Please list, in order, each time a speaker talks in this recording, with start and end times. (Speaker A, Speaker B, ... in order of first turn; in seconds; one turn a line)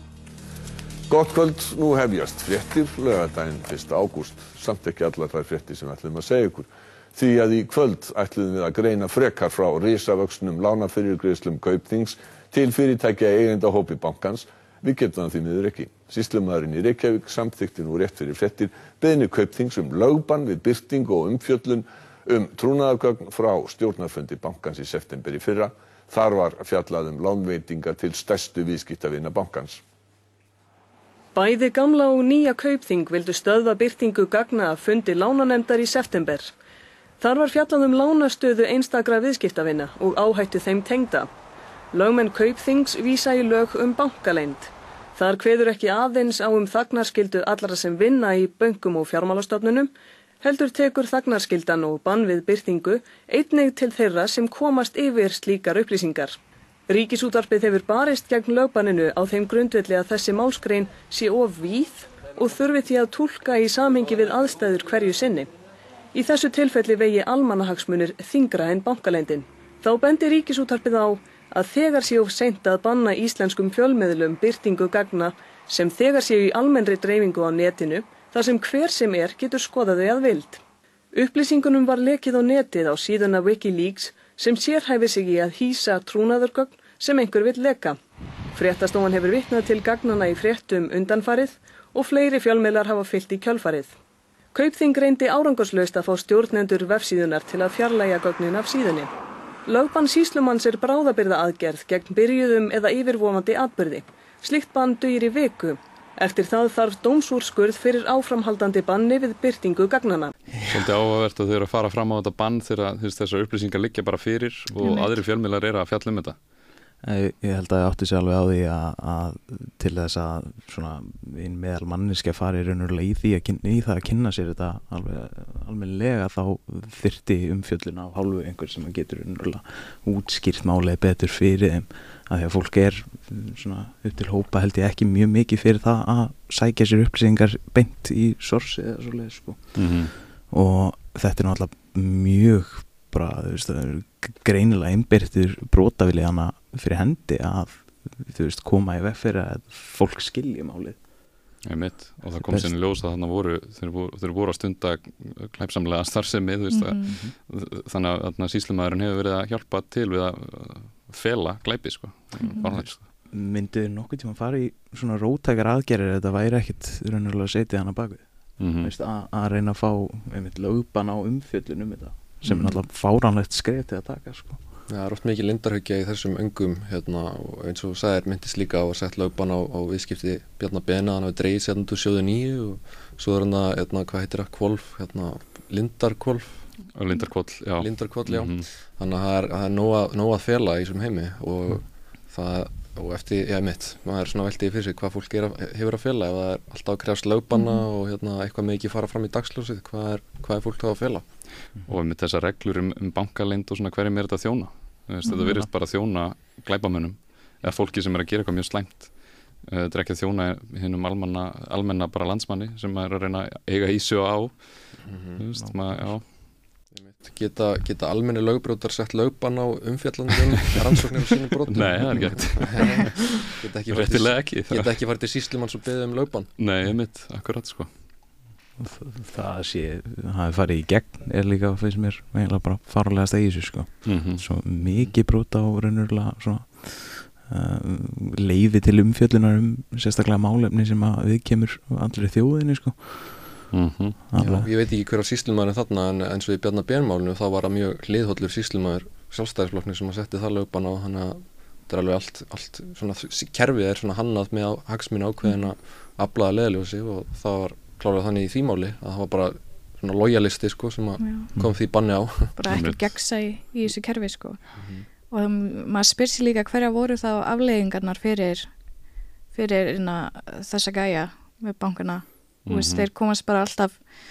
Speaker A: 1.1-29.8
Speaker B: 31.3-36.5
Speaker B: 37.2-41.3
Speaker B: 41.9-56.4
Speaker B: 56.9-65.5
Speaker B: 66.1-80.6
Speaker B: 81.1-88.0
Speaker B: 88.5-93.9
Speaker B: 94.5-99.1
Speaker B: 99.7-110.3
Speaker C: 110.6-110.8
Speaker D: 110.7-116.4
Speaker E: 114.8-115.2
Speaker C: 117.0-140.0
Speaker D: 139.7-140.1
Speaker C: 140.5-151.0
Speaker D: 151.6-163.0
Speaker C: 152.4-152.7
Speaker E: 156.7-157.1
Speaker C: 162.4-174.6
Speaker E: 162.5-162.7
Speaker D: 168.6-168.9
Speaker E: 172.4-172.8
Speaker F: 174.9-186.6
Speaker D: 186.9-188.7
Speaker F: 187.8-201.2
Speaker E: 197.5-197.8
Speaker D: 201.8-209.1
Speaker E: 205.2-205.5
Speaker D: 209.6-214.6
Speaker F: 215.1-215.4
Speaker D: 215.4-216.2
Speaker C: 215.6-216.1
Speaker F: 216.9-226.5
Speaker D: 221.7-224.9
Speaker D: 226.6-227.9
Speaker C: 228.8-243.7
Speaker D: 234.0-234.4
Speaker D: 243.7-244.2
Speaker C: 244.3-244.7
Speaker F: 244.4-262.5
Speaker E: 261.2-261.5
Speaker E: 262.5-264.6
Speaker D: 262.7-263.0
Speaker F: 264.8-265.0
Speaker E: 265.3-268.7
Speaker E: 269.5-274.0
Speaker D: 272.7-273.1